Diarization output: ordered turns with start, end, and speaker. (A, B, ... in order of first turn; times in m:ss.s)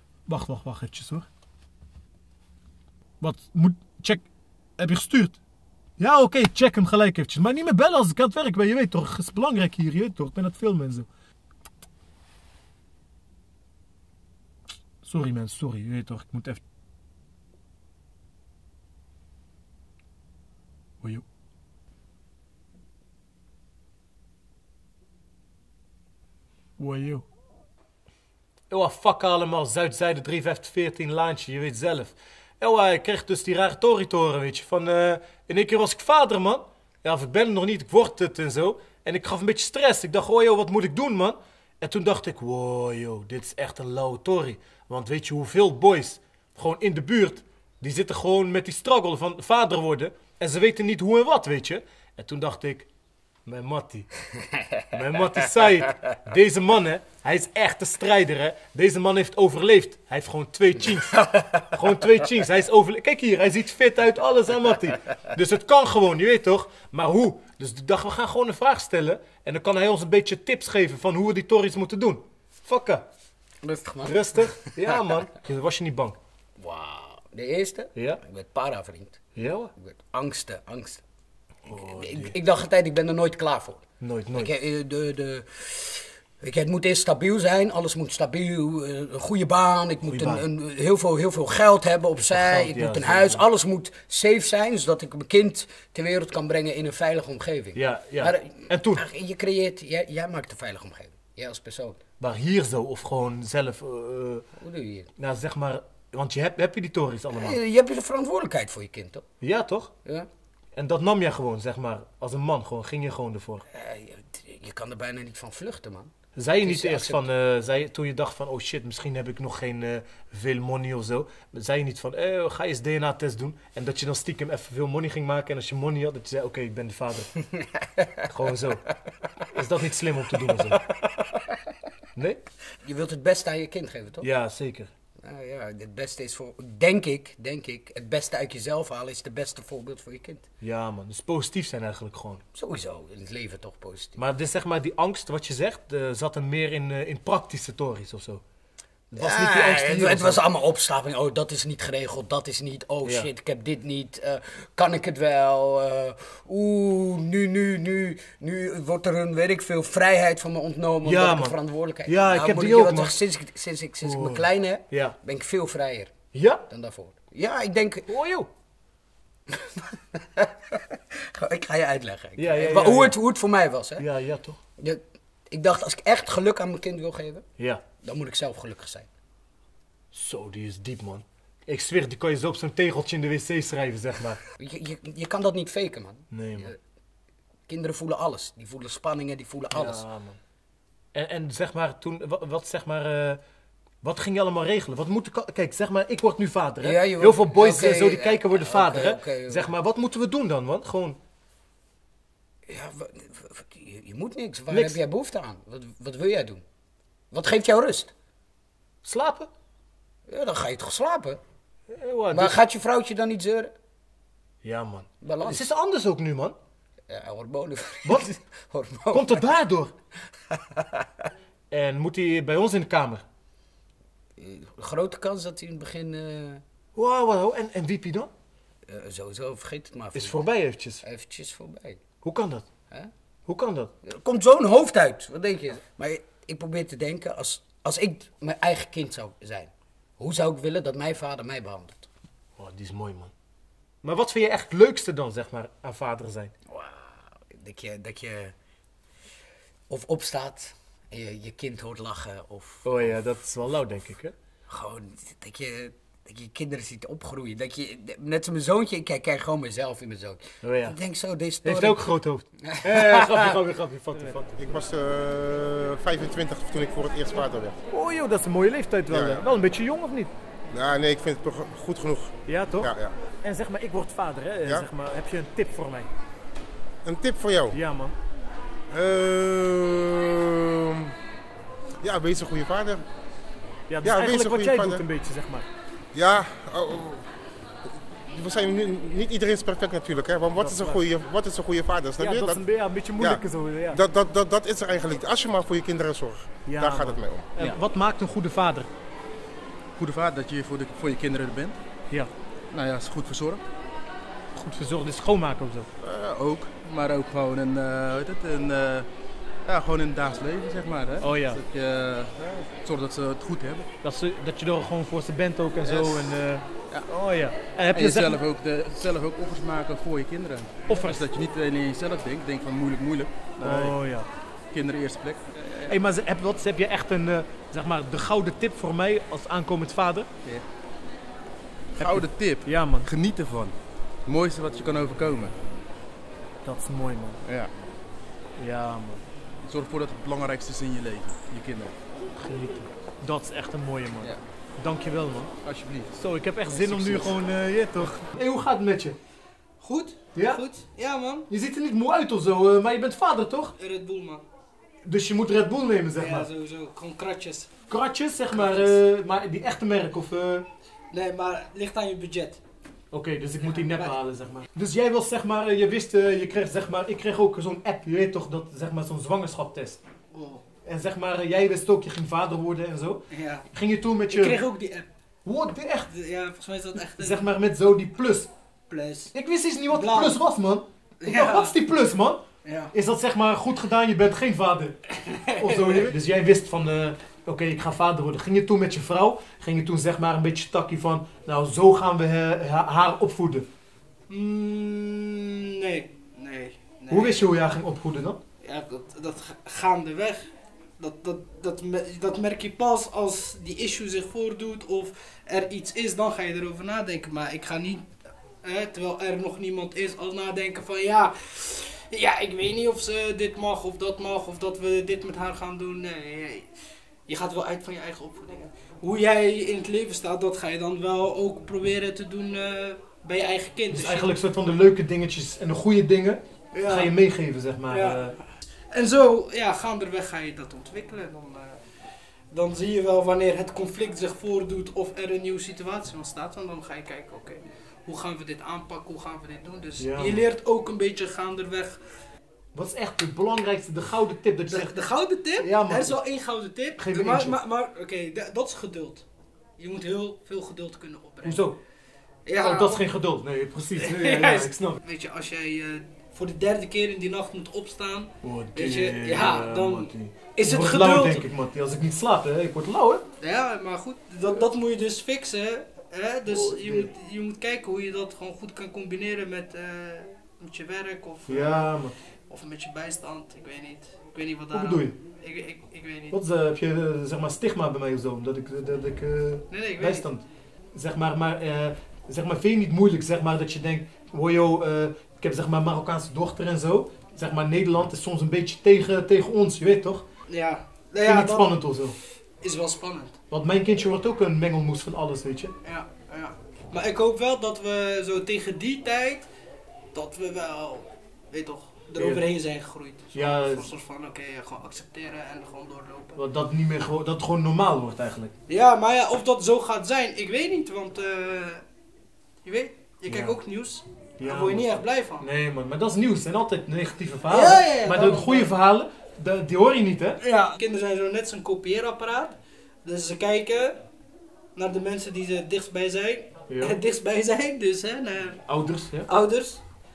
0:00.3-0:01.3 A
0:03.2-0:04.2 A
0:04.8-0:05.4 A
0:06.0-0:11.1 A
0:15.0-0:16.6 A
0:26.8-0:27.2 A
0:28.7-0:52.9 A
0:53.5-0:54.1 A
0:54.9-1:13.0 A
1:13.6-1:14.8 B
1:14.0-1:16.2 A
1:16.6-1:19.2 B
1:18.0-1:18.2 A
1:19.4-1:19.7 A
1:19.8-1:21.0 B
1:21.7-1:22.4 A
1:21.7-1:23.8 B
1:24.0-1:24.5 A
1:24.4-1:42.0 B
1:30.1-1:30.5 A
1:32.2-1:33.4 A
1:37.8-1:39.0 A
1:42.2-1:44.5 A
1:44.6-1:45.1 B
1:45.2-1:47.6 A
1:47.3-1:49.2 B
1:49.4-1:49.9 A
1:50.8-1:53.6 A
1:53.7-1:56.1 B
1:56.4-2:07.4 A
1:56.6-1:57.3 B
2:08.2-2:08.9 A
2:09.4-2:10.9 A
2:12.2-2:12.4 A
2:12.8-2:14.3 B
2:14.2-2:14.9 A
2:15.2-2:20.4 B
2:20.6-2:22.4 A
2:22.5-2:24.2 B
2:24.2-2:28.4 A
2:29.1-2:30.4 A
2:29.2-2:46.1 B
2:41.0-2:43.2 A
2:44.0-2:45.2 A
2:46.3-2:46.6 A
2:46.7-2:48.1 B
2:48.1-2:48.5 A
2:49.5-2:54.1 B
2:52.4-2:53.2 A
2:54.0-2:54.6 A
2:54.8-2:57.4 B
2:57.6-2:57.8 A
2:58.0-2:59.1 B
3:00.1-3:04.4 A
3:04.6-3:06.8 B
3:06.3-3:06.7 A
3:07.7-3:10.0 B
3:09.7-3:10.4 A
3:11.1-3:13.4 A
3:14.0-3:21.2 A
3:16.8-3:19.7 B
3:22.7-3:26.6 B
3:24.7-3:25.0 A
3:27.3-3:28.1 B
3:29.0-3:29.5 A
3:30.3-3:31.4 B
3:31.9-3:32.6 A
3:32.3-3:33.7 B
3:34.6-3:36.6 A
3:35.2-3:35.7 B
3:37.1-3:39.4 B
3:39.1-3:39.9 A
3:40.5-3:41.1 B
3:41.7-3:43.2 A
3:44.4-3:46.6 B
3:47.0-3:48.3 A
3:48.9-3:50.4 B
3:50.2-3:51.0 A
3:51.0-3:52.0 B
3:52.2-3:52.7 A
3:53.5-3:53.9 A
3:54.0-4:02.1 B
4:02.6-4:03.3 A
4:04.0-4:06.5 A
4:06.7-4:08.6 B
4:09.9-4:13.2 B
4:12.8-4:14.3 A
4:14.7-4:22.1 B
4:20.6-4:21.0 A
4:21.6-4:24.8 A
4:22.7-4:23.6 B
4:24.6-4:27.8 C
4:27.9-4:30.3 A
4:29.1-4:29.5 C
4:30.7-4:33.2 C
4:32.4-4:36.1 A
4:37.0-4:37.8 C
4:37.7-4:38.2 A
4:38.9-4:41.2 C
4:42.0-4:43.0 C
4:43.9-4:45.7 A
4:44.0-4:45.0 C
4:46.1-4:47.2 C
4:48.3-4:52.6 C
4:50.6-4:51.1 A
4:52.2-4:54.0 A
4:53.2-4:57.5 C
4:56.7-4:58.9 A
5:00.0-5:01.8 D
5:02.7-5:03.6 D
5:04.6-5:05.9 A
5:06.2-5:09.1 D
5:09.6-5:13.9 D
5:11.2-5:11.6 A
5:14.0-5:18.4 A
5:15.8-5:16.3 D
5:17.9-5:24.0 D
5:20.9-5:21.2 A
5:23.6-5:24.3 A
5:24.7-5:25.9 D
5:25.9-5:30.3 A
5:32.0-5:35.6 D
5:32.0-5:33.1 A
5:36.6-5:37.4 A
5:37.4-5:37.7 D
5:38.6-5:39.2 A
5:39.6-5:41.9 D
5:42.4-5:45.5 A
5:45.6-5:47.3 D
5:46.2-5:49.2 A
5:49.8-5:51.5 E
5:50.4-5:50.6 A
5:51.5-5:53.8 A
5:53.8-5:54.4 E
5:55.0-5:56.5 A
5:56.2-5:57.7 E
5:57.9-6:00.7 A
5:58.5-5:59.0 E
6:01.1-6:02.6 E
6:03.1-6:10.0 A
6:03.6-6:04.1 E
6:10.3-6:10.6 E
6:10.8-6:14.6 A
6:13.3-6:13.7 E
6:14.3-6:15.1 E
6:15.4-6:16.1 A
6:16.1-6:17.5 E
6:17.0-6:18.5 A
6:18.9-6:19.3 E
6:19.3-6:25.0 A
6:19.9-6:20.4 E
6:21.2-6:21.8 E
6:22.6-6:22.9 E
6:25.2-6:26.1 E
6:25.5-6:33.7 A
6:34.3-6:37.4 E
6:37.1-6:38.4 A
6:38.6-6:40.5 E
6:41.0-6:48.1 E
6:48.6-6:56.7 E
6:57.3-7:04.3 E
7:03.9-7:08.4 A
7:06.7-7:07.2 E
7:07.9-7:22.0 E
7:20.0-7:20.4 A
7:22.8-7:25.0 A
7:24.7-7:29.2 E
7:25.6-7:26.2 A
7:27.0-7:27.6 A
7:29.8-7:31.6 E
7:31.4-7:31.8 A
7:32.5-7:33.0 E
7:32.6-7:35.0 A
7:34.0-7:41.5 E
7:38.4-7:43.2 A
7:43.4-7:51.9 E
7:46.5-7:47.1 A
7:51.5-7:52.2 A
7:52.5-7:56.4 E
7:54.7-7:55.1 A
7:56.3-8:10.3 A
7:59.7-8:00.3 E
8:10.5-8:11.9 E
8:11.2-8:12.2 A
8:12.6-8:13.4 E
8:13.5-8:15.7 A
8:15.8-8:19.5 E
8:20.1-8:26.4 E
8:22.2-8:22.4 A
8:23.3-8:23.9 A
8:26.4-8:28.5 A
8:28.7-8:31.8 E
8:32.6-8:35.5 E
8:33.3-8:33.6 A
8:34.4-8:40.4 A
8:37.5-8:38.7 E
8:40.4-8:44.0 E
8:44.8-8:48.6 E
8:46.7-8:47.0 A
8:48.7-8:49.3 A
8:49.3-8:49.8 E